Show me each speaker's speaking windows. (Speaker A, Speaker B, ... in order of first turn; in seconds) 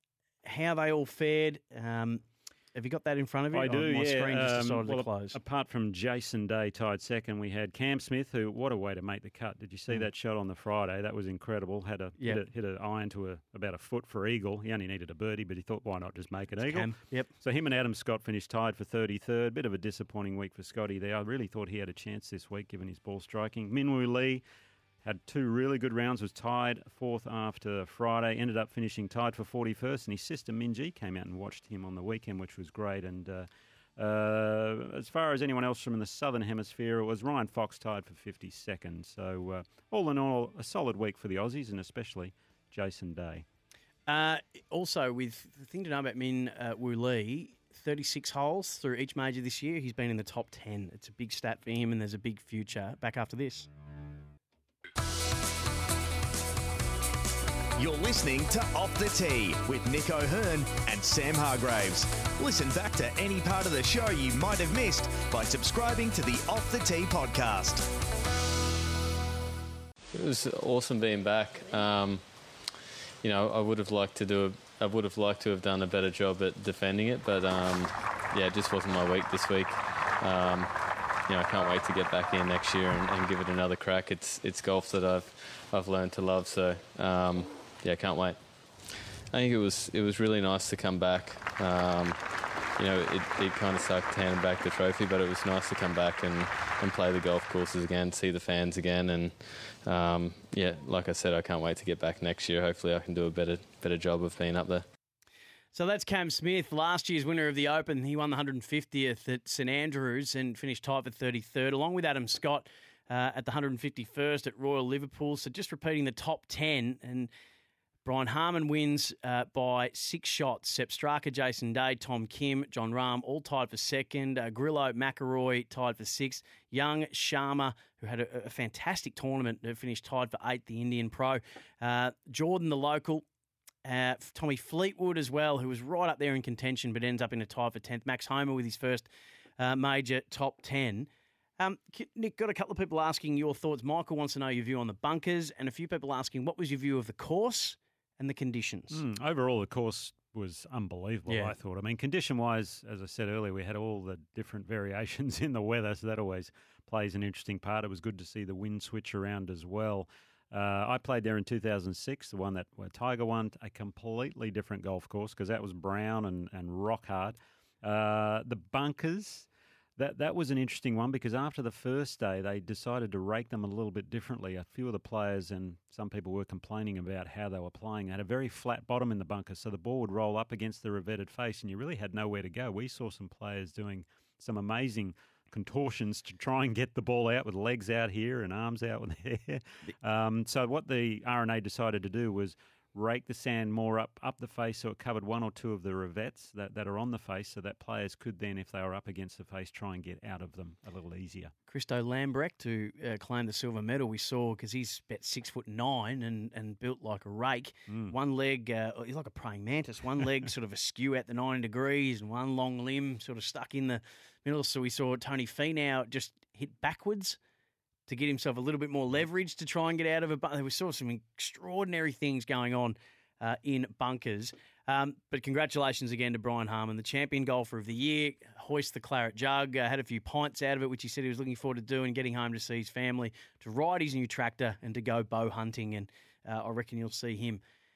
Speaker A: 0.4-5.4, 16.6-17.3, 44.1-53.7, 105.7-117.3, 118.0-133.2, 133.8-149.0, 151.3-151.5, 201.7-217.4, 218.1-237.6
Speaker B: 3.5-24.4, 25.0-43.4, 148.9-201.5, 207.9-208.1
Speaker C: 57.8-67.8
Speaker D: 70.1-72.2, 73.2-88.4, 89.3-104.8